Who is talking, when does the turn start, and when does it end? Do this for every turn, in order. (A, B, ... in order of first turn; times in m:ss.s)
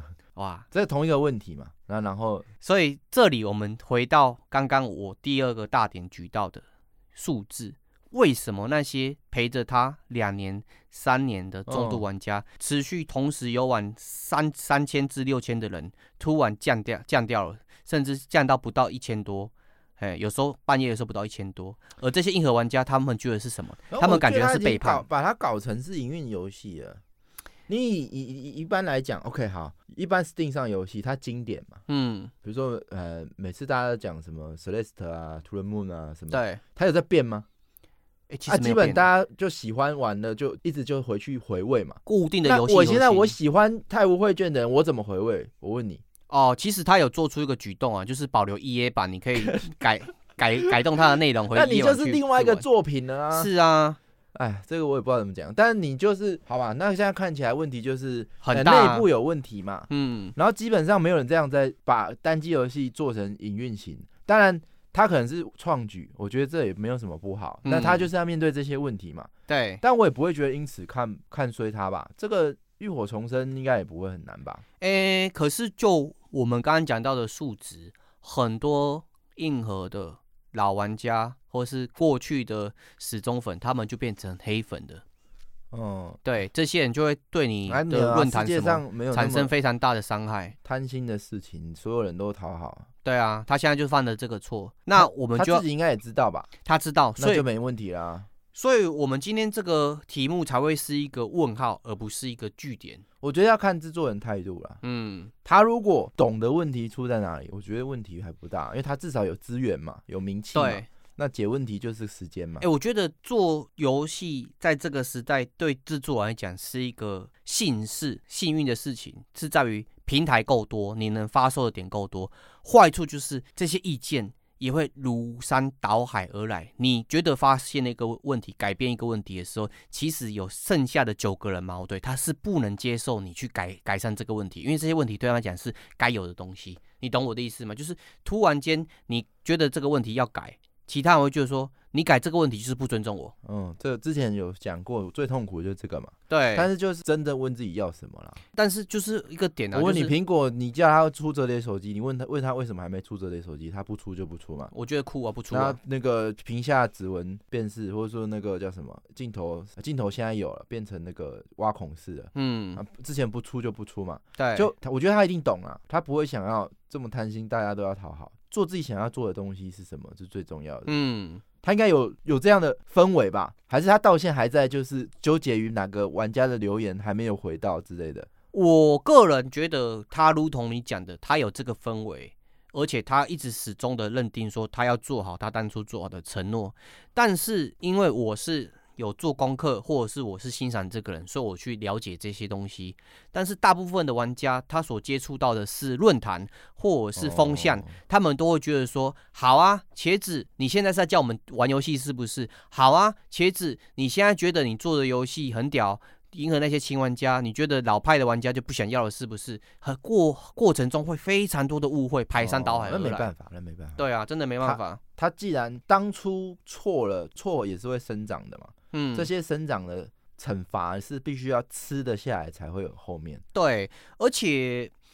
0:00.4-0:00.6 A
0:00.7-0:02.4 B
0:02.6-0:06.6 A
0:07.1-0:25.0 A
0:11.7-0:12.0 B
0:23.9-0:27.0 B
0:27.7-0:31.8 B
0:31.9-0:32.3 A
0:32.4-0:37.4 B
0:36.3-0:36.6 A
0:38.3-0:39.1 A
0:38.5-0:46.0 B
0:42.0-0:43.3 A
0:46.3-0:52.6 A
0:51.5-0:53.5 B
0:53.3-0:54.0 A
0:54.3-1:09.3 B
0:58.4-0:59.1 A
0:59.9-1:00.3 A
1:07.6-1:08.1 A
1:09.5-1:09.8 A
1:09.8-1:14.6 B
1:14.8-1:25.0 A
1:25.7-1:26.2 B
1:26.2-1:30.5 A
1:27.7-1:29.5 B
1:30.6-1:32.9 B
1:33.0-1:35.6 A
1:35.0-1:36.5 B
1:36.6-1:37.4 A
1:37.2-1:38.3 B
1:38.5-1:43.0 A
1:43.2-1:44.8 B
1:44.8-1:45.3 A
1:45.4-1:52.6 B
1:50.5-1:50.9 A
1:52.6-2:23.3 A
2:23.4-2:28.4 B
2:26.3-2:26.7 A
2:28.5-2:30.1 A
2:29.7-2:34.7 B
2:34.7-2:35.8 A
2:35.5-2:50.9 B
2:42.3-2:42.8 A
2:44.4-2:44.7 A
2:50.8-2:51.4 A
2:51.6-2:58.3 B
2:58.5-3:33.3 A
3:17.2-3:17.9 B
3:32.4-3:34.0 B
3:34.0-3:35.0 A
3:34.6-3:43.4 B
3:38.9-3:39.3 A
3:43.5-3:44.9 A